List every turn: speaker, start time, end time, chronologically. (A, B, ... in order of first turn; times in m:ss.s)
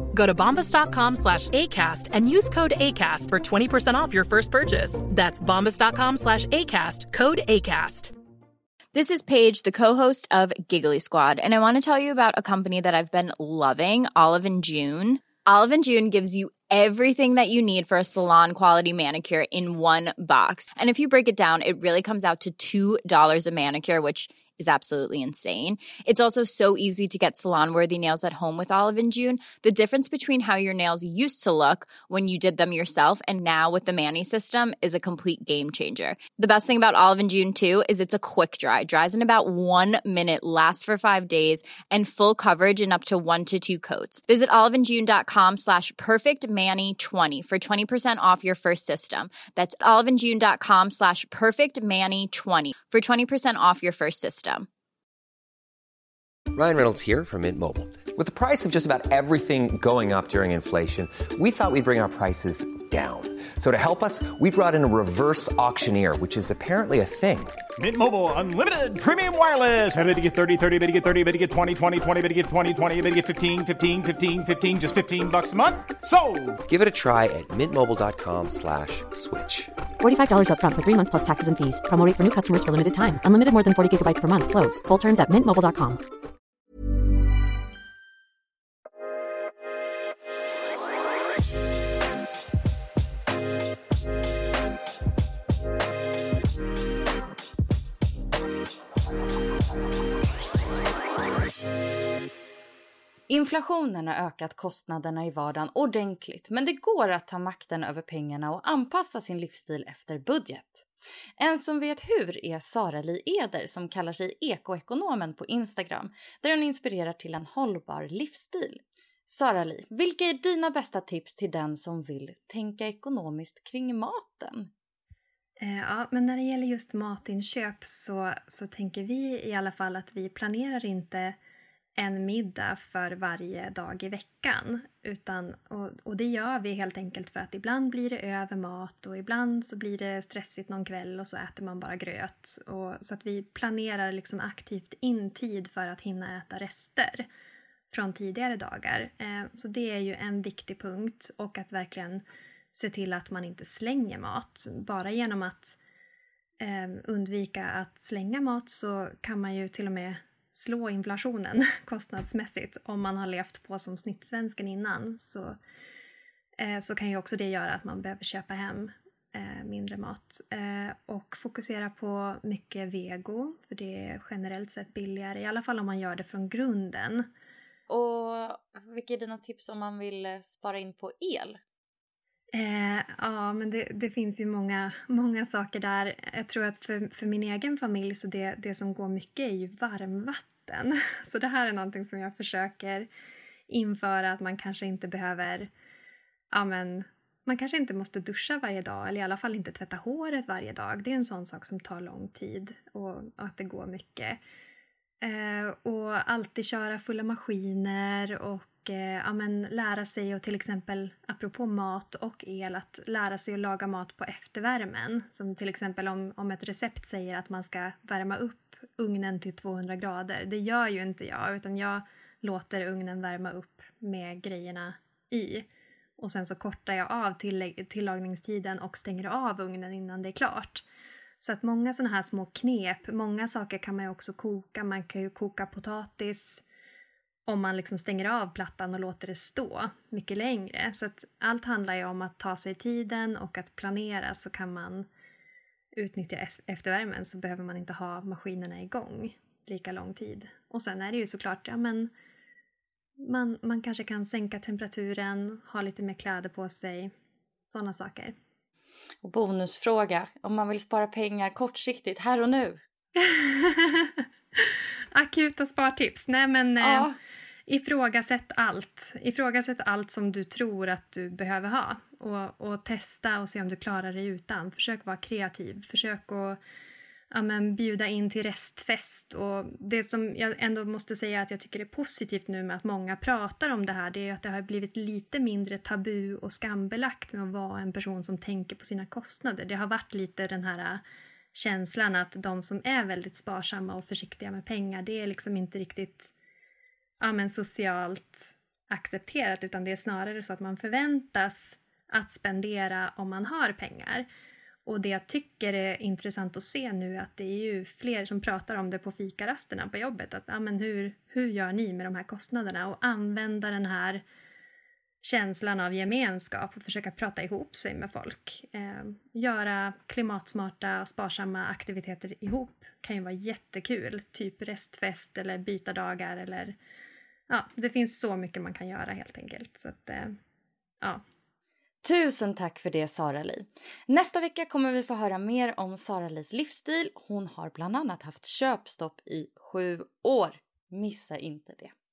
0:00.1-0:08.1 A
0:08.9-0:54.6 B
0:56.5-1:07.6 C
1:07.8-1:16.6 D
1:16.7-1:19.7 C
1:20.0-1:26.0 E
1:43.3-1:50.8 F
1:51.4-2:04.7 F
2:05.6-2:11.4 G
2:12.0-2:27.2 G
2:27.9-2:35.8 G
2:36.6-2:45.6 G
2:46.6-2:57.3 G
2:57.9-3:01.6 F
3:02.5-3:13.1 G
3:13.7-3:15.7 G
3:16.5-3:24.4 G
3:25.2-3:45.7 G
3:46.2-3:50.8 G
3:51.4-3:56.6 G
3:57.5-4:05.1 G
4:06.0-4:12.1 G
4:13.3-4:17.1 G
4:17.7-4:18.3 G
4:19.2-4:22.8 F
4:23.2-4:24.6 G
4:25.1-4:27.1 G
4:26.8-4:27.1 F
4:27.7-4:36.6 G
4:37.3-4:51.0 G
4:51.5-4:56.3 G
4:57.2-5:04.3 G
5:04.8-5:14.2 G
5:15.2-5:26.8 G
5:27.5-5:30.3 G
5:32.0-5:41.9 F